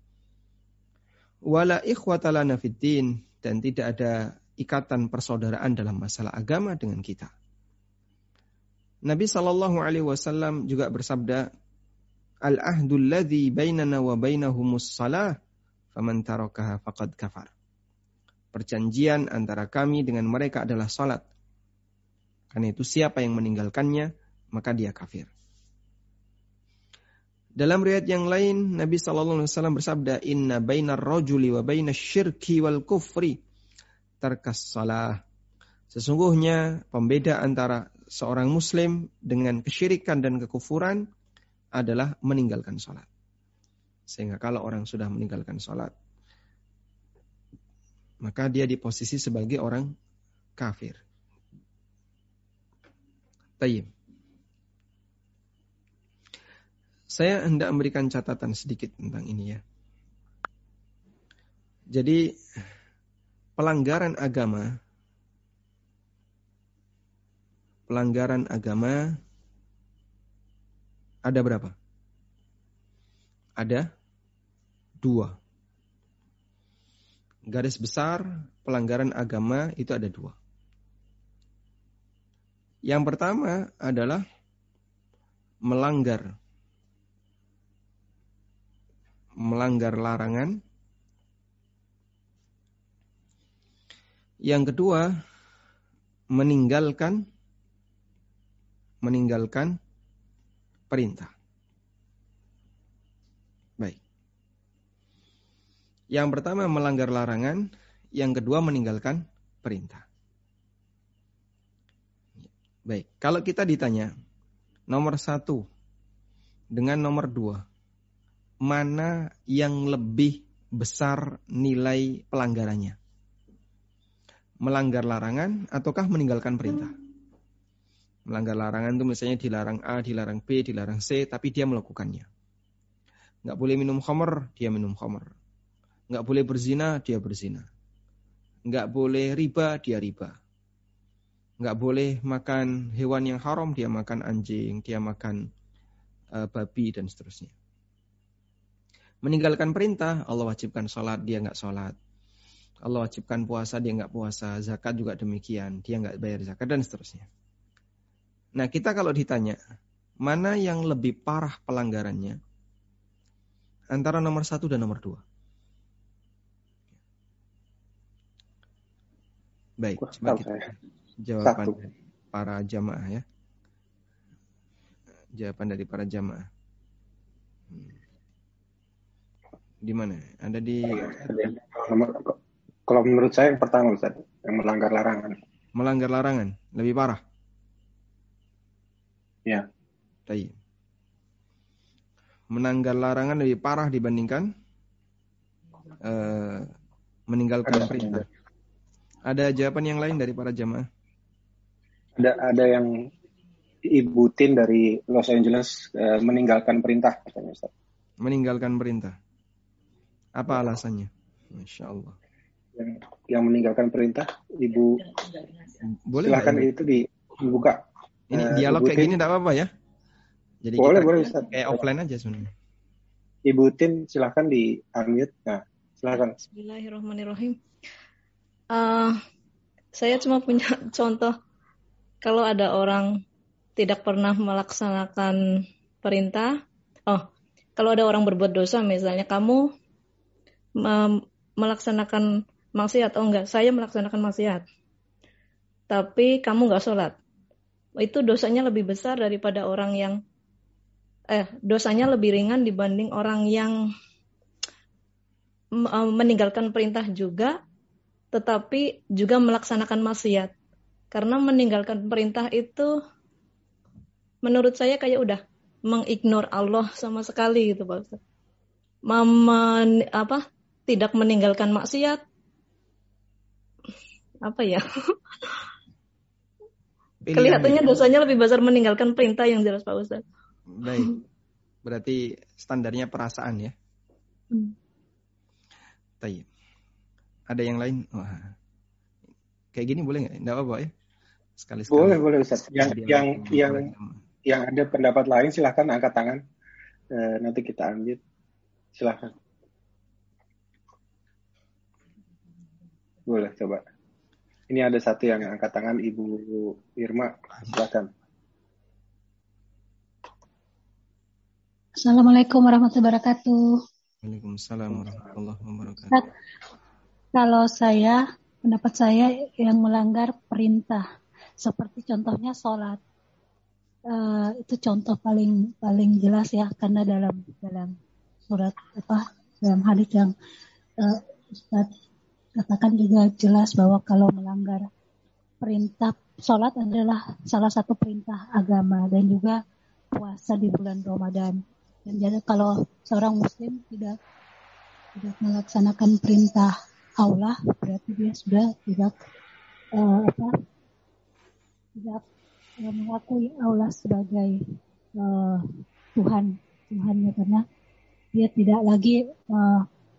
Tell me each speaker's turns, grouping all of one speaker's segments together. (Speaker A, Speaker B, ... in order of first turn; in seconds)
Speaker A: 1.5-7.3, 9.1-11.5, 12.5-15.4, 15.9-17.5, 18.5-21.2, 22.5-25.3, 27.6-33.4, 34.2-35.2, 35.9-41.1, 41.8-43.1, 44.1-45.9, 48.2-49.9, 50.6-51.0, 53.6-53.9, 57.1-59.6, 61.9-62.2, 63.6-64.7, 67.9-69.2, 71.3-71.8, 73.6-73.9, 75.0-75.4, 77.5-80.4, 82.9-84.2, 85.7-86.3, 89.4-90.6, 94.4-95.1, 96.3-97.2, 99.0-99.8, 100.9-101.3, 106.1-110.0, 112.4-114.1, 114.9-115.7, 116.7-117.6, 118.6-123.0, 124.6-126.9, 128.3-132.3, 133.4-135.3, 136.1-137.7, 138.7-140.4, 141.6-145.5, 146.3-147.5, 149.2-151.9, 152.8-157.3, 158.6-159.6, 160.2-162.4, 163.9-165.2, 169.8-173.2, 175.4-176.5, 177.7-178.0, 179.8-181.3, 185.8-187.2, 190.3-190.6, 192.5-194.5, 196.0-196.7, 197.3-198.3, 199.3-200.9, 208.2-209.2, 210.3-212.2, 215.8-216.8, 218.3-219.7, 220.6-222.5, 277.2-278.1, 280.7-281.2, 281.8-283.8, 286.2-286.5, 287.5-288.6, 289.7-290.9, 291.6-292.2, 292.8-294.2, 314.2-316.3
Speaker B: 170.0-170.7, 171.4-171.7, 180.9-182.4, 182.9-185.4, 197.7-198.2, 202.2-202.9, 203.9-207.7, 212.8-215.0, 216.2-217.8, 218.3-219.2, 220.8-221.8, 223.5-226.4, 291.9-293.9, 294.5-296.4, 297.1-298.2, 299.0-299.3, 303.3-303.8, 304.7-308.1
Speaker C: 226.4-227.6, 228.7-229.2, 229.9-231.3, 232.2-233.2, 233.8-239.7, 240.8-244.6, 245.9-247.1, 248.0-250.2, 251.3-253.8, 255.8-257.6, 258.3-260.5, 261.1-263.0, 264.4-268.2, 269.1-272.2, 274.4-275.6, 277.3-280.2
Speaker D: 312.0-313.6, 317.3-321.0, 321.6-323.0, 324.1-328.0, 328.5-330.3, 331.0-331.9, 332.6-334.9, 335.6-339.6, 340.1-344.2, 345.1-349.1, 349.9-350.5, 352.0-352.2, 352.8-354.6, 355.2-357.6, 358.3-359.9